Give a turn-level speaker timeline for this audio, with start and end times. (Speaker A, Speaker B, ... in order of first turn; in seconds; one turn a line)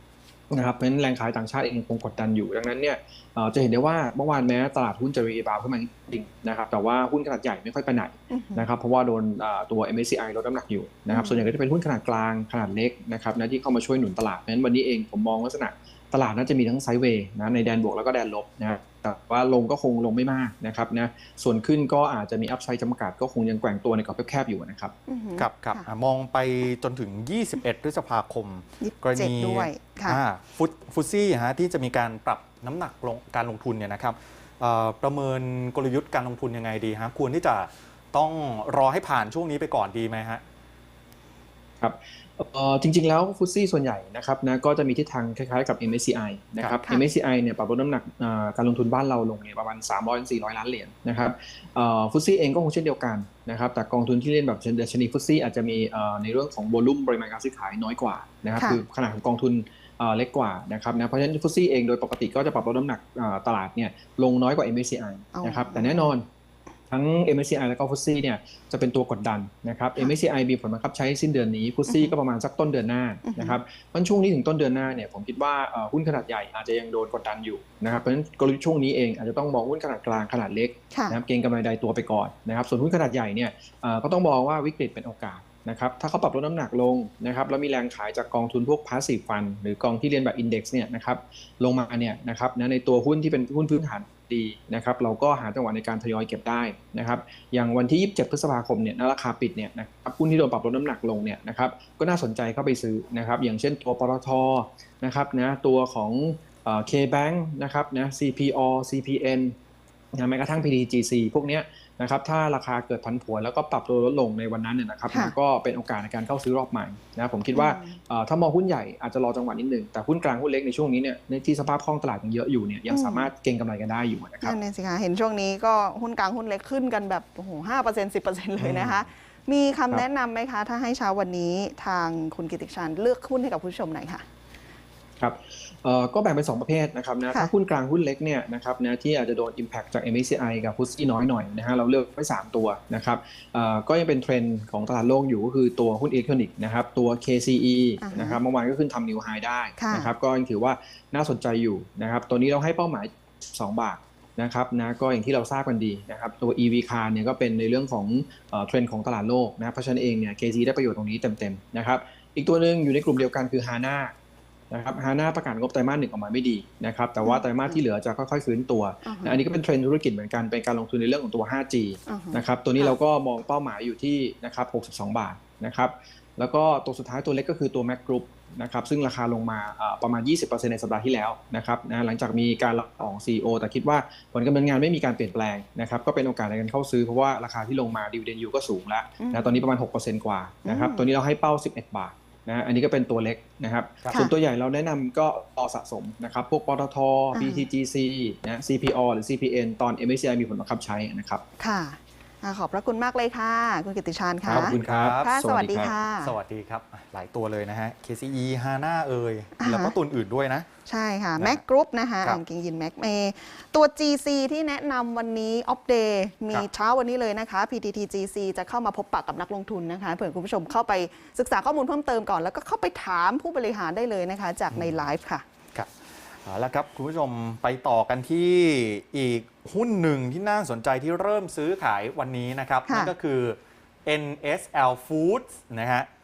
Speaker A: 0.5-24.9
Speaker B: 8.3-8.7
Speaker B: 11.1-11.4
Speaker B: 25.1-25.9
Speaker C: 25.4-40.4
Speaker B: 28.8-30.2
Speaker A: 41.8-66.2
Speaker B: 65.3-66.1
Speaker A: 66.9-109.5
Speaker B: 71.9-72.1
Speaker B: 73.2-73.6
Speaker B: 80.9-81.2
Speaker A: 110.1-124.5
Speaker B: 117.5-118.0
Speaker B: 122.9-123.3
Speaker B: 124.4-134.2
Speaker C: 128.6-128.9
Speaker A: 135.2-164.1
Speaker B: 148.0-148.4
Speaker B: 149.8-150.1
Speaker A: 164.7-201.4
Speaker B: 167.2-167.8
Speaker B: 169.0-169.4
Speaker B: 172.1-172.9
Speaker B: 189.2-189.6
Speaker B: 190.7-191.1
Speaker B: 197.3-197.7
Speaker B: 201.6-206.3
Speaker C: 204.4-205.3
Speaker A: 204.4-205.9
Speaker C: 206.2-210.7
Speaker B: 209.6-209.9
Speaker B: 210.8-225.4
Speaker C: 226.4-236.1
Speaker B: 232.9-233.1